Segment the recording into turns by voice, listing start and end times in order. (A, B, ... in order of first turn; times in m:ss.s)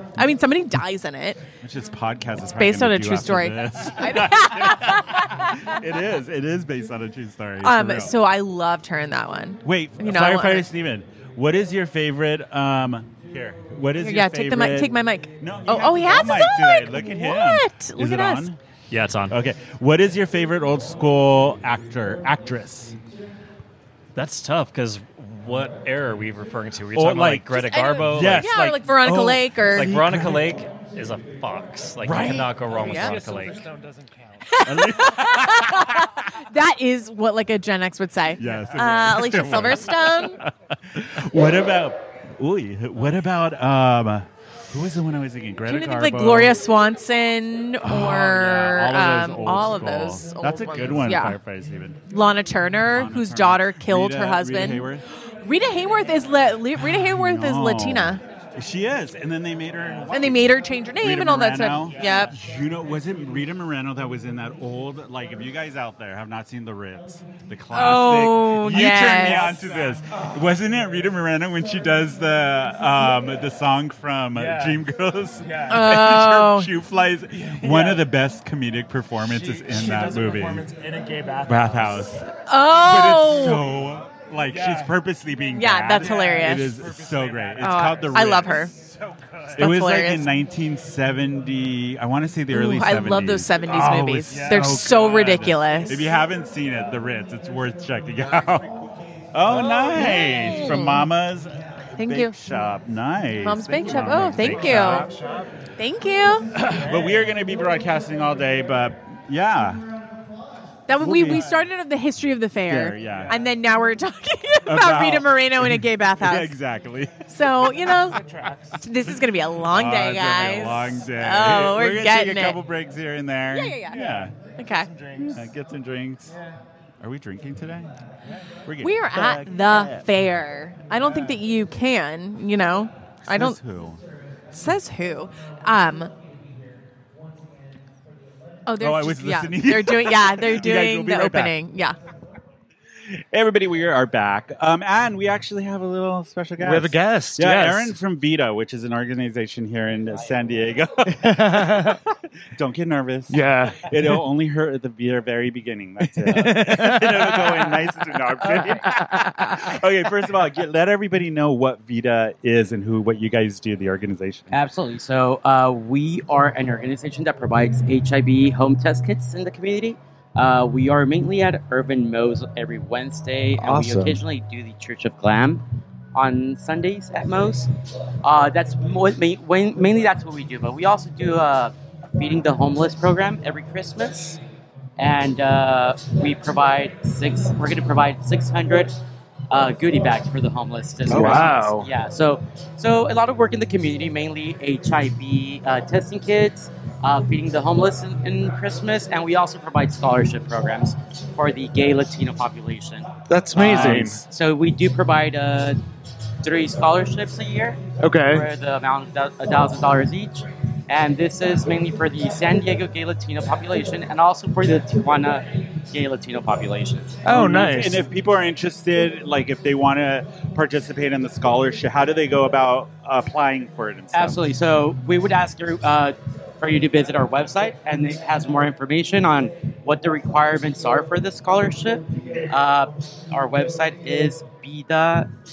0:00.2-0:01.4 A
0:01.6-0:08.2 B
0:02.5-0:05.7 A
0:07.6-0:10.7 A
0:09.6-0:18.6 B
0:14.0-0:18.5 A
0:18.9-0:19.4 C
0:19.3-0:23.0 B
0:24.1-0:28.5 C
0:26.9-0:30.6 B
0:27.5-0:29.9 A
0:29.7-0:33.7 C
0:32.0-0:32.6 B
0:32.1-0:34.6 D
0:32.8-0:33.2 A
0:34.4-0:40.4 A
0:34.6-0:36.2 B
0:38.4-0:46.6 B
0:38.4-0:39.1 D
0:45.6-0:51.4 A
0:47.8-0:52.0 B
0:52.1-0:58.2 A
0:52.9-0:55.0 B
0:56.8-1:20.7 B
1:00.1-1:02.3 A
1:01.9-1:02.3 D
1:07.7-1:09.6 A
1:08.7-1:10.0 D
1:14.3-1:14.8 D
1:15.4-1:15.8 D
1:15.7-1:16.7 A
1:17.3-1:18.1 D
1:19.2-1:22.1 D
1:21.4-1:28.7 B
1:22.4-1:23.6 A
1:24.4-1:25.0 D
1:25.5-1:26.8 A
1:26.0-1:29.7 D
1:27.6-1:28.7 A
1:29.5-1:30.3 A
1:29.5-1:38.7 B
1:32.5-1:36.1 A
1:34.0-1:34.8 D
1:39.3-1:45.1 B
1:39.5-1:41.0 A
1:42.0-1:42.3 A
1:43.4-1:45.1 A
1:44.2-1:45.5 D
1:45.8-1:46.5 A
1:46.5-1:49.8 B
1:46.7-1:47.3 D
1:50.9-1:56.5 A
1:51.0-1:51.5 B
1:52.7-1:53.4 B
1:53.1-1:53.5 D
1:54.6-1:58.0 B
1:57.3-1:58.2 A
1:58.0-1:58.8 D
1:58.8-2:02.6 A
1:59.7-2:04.3 B
2:03.5-2:04.0 A
2:03.9-2:05.5 D
2:04.6-2:04.9 A
2:05.2-2:06.3 B
2:06.3-2:06.5 D
2:07.0-2:07.9 B
2:08.3-2:08.5 D
2:08.6-2:10.1 B
2:08.8-2:13.6 A
2:13.2-2:14.0 B
2:14.5-2:16.1 A
2:18.7-2:22.0 A
2:18.8-2:21.6 B
2:23.3-2:32.0 B
2:26.6-2:27.9 D
2:31.3-2:32.0 D
2:32.5-2:44.6 B
2:33.3-2:34.2 D
2:36.2-2:37.6 D
2:44.5-2:57.7 E
2:53.6-2:54.1 D
2:58.2-3:04.4 E
3:05.0-3:09.0 E
3:09.5-3:25.8 E
3:11.0-3:11.9 D
3:23.3-3:24.2 D
3:23.6-3:24.1 B
3:26.4-3:37.2 E
3:28.0-3:28.5 D
3:37.2-3:38.0 D
3:37.2-3:44.4 B
3:44.1-3:55.3 E